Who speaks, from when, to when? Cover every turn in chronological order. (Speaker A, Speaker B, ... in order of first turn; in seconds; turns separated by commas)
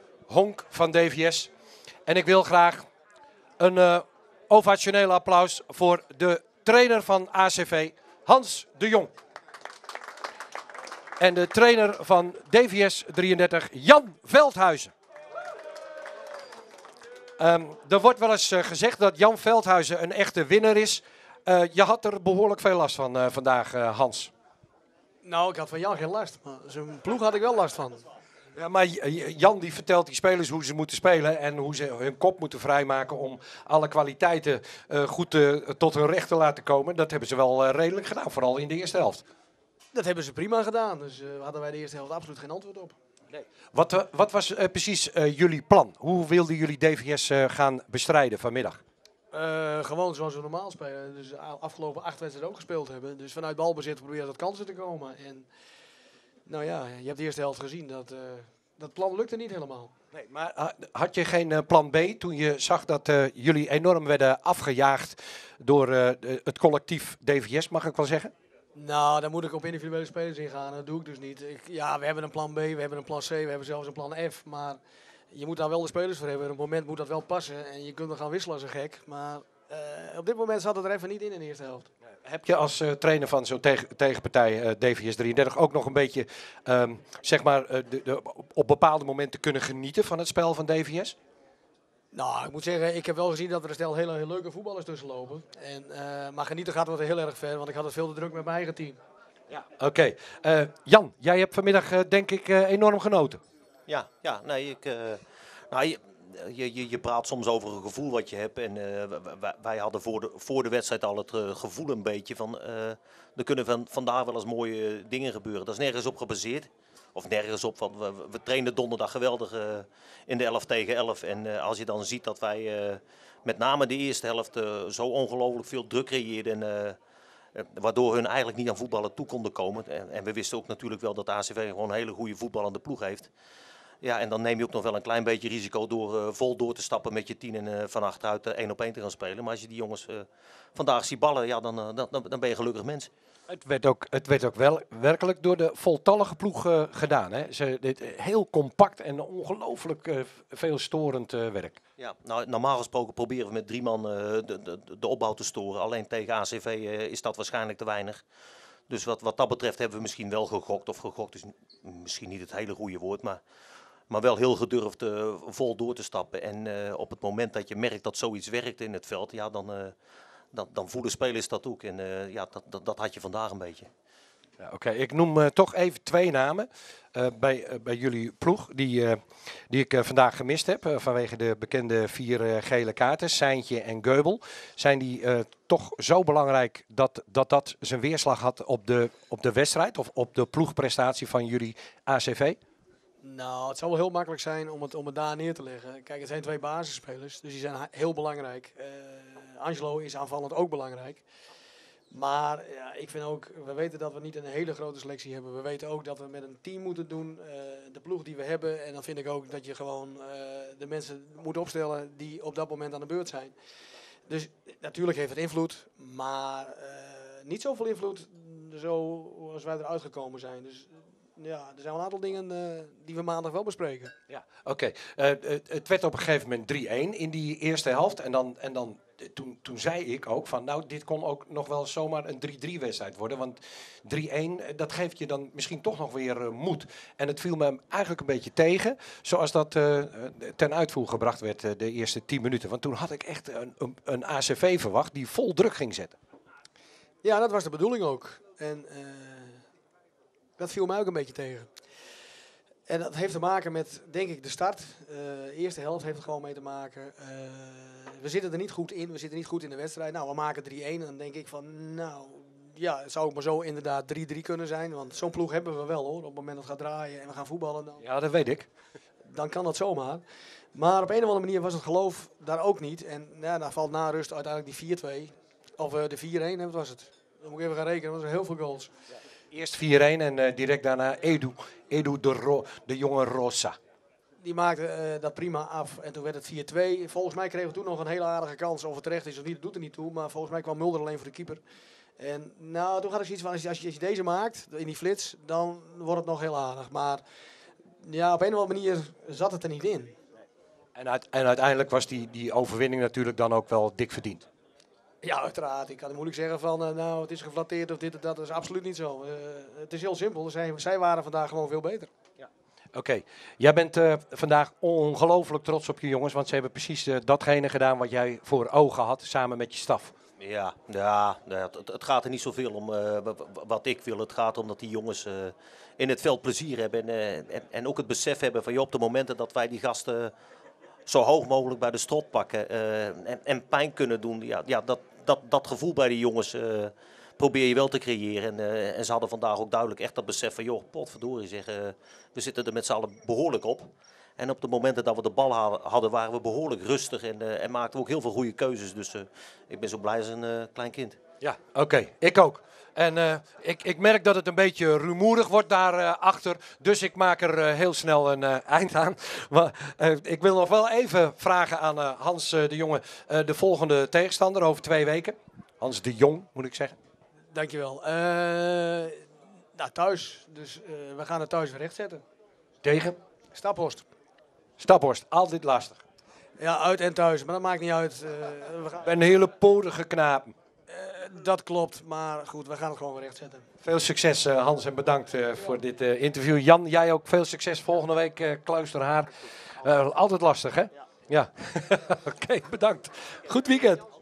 Speaker A: 0.3-1.5, Speaker A: 2.1-2.9, Speaker A: 3.6-9.1, Speaker A: 11.2-14.9, Speaker A: 17.4-24.3, Speaker B: 25.2-28.0, Speaker A: 28.6-39.2, Speaker B: 39.9-43.0, Speaker A: 43.3-48.8, Speaker B: 49.3-55.5, Speaker B: 56.5-59.9, Speaker A: 60.1-68.3, Speaker B: 68.8-74.8, Speaker B: 75.3-81.9, Speaker A: 82.2-91.2, Speaker B: 92.1-99.0, Speaker A: 99.5-103.4, Speaker C: 103.9-127.0, Speaker C: 127.5-133.3, Speaker C: 134.0-143.1, Speaker A: 143.5-151.8, Speaker C: 152.0-158.2, Speaker C: 158.9-163.4, Speaker C: 164.1-169.9, Speaker C: 170.5-173.9, Speaker A: 174.6-192.6, Speaker B: 193.2-201.2, Speaker B: 202.1-213.5, Speaker B: 214.3-224.1, Speaker A: 224.3-246.2, Speaker B: 247.2-249.6, Speaker B: 250.6-251.7, Speaker B: 252.9-268.0, Speaker A: 268.0-268.7, Speaker B: 269.3-270.2, Speaker B: 270.8-278.9, Speaker A: 279.5-283.8, Speaker B: 284.4-291.6, Speaker B: 292.2-297.2, Speaker B: 298.0-300.2, Speaker A: 300.9-304.5, Speaker B: 305.2-312.1, Speaker A: 312.9-320.1, Speaker C: 320.4-330.3, Speaker C: 331.1-351.2, Speaker A: 351.4-366.9, Speaker B: 367.5-369.2, Speaker B: 369.8-372.2, Speaker A: 372.8-373.2, Speaker B: 373.5-374.1, Speaker A: 374.8-376.0, Speaker B: 376.6-379.0, Speaker A: 379.0-380.6, Speaker B: 380.9-383.7, Speaker A: 383.8-394.1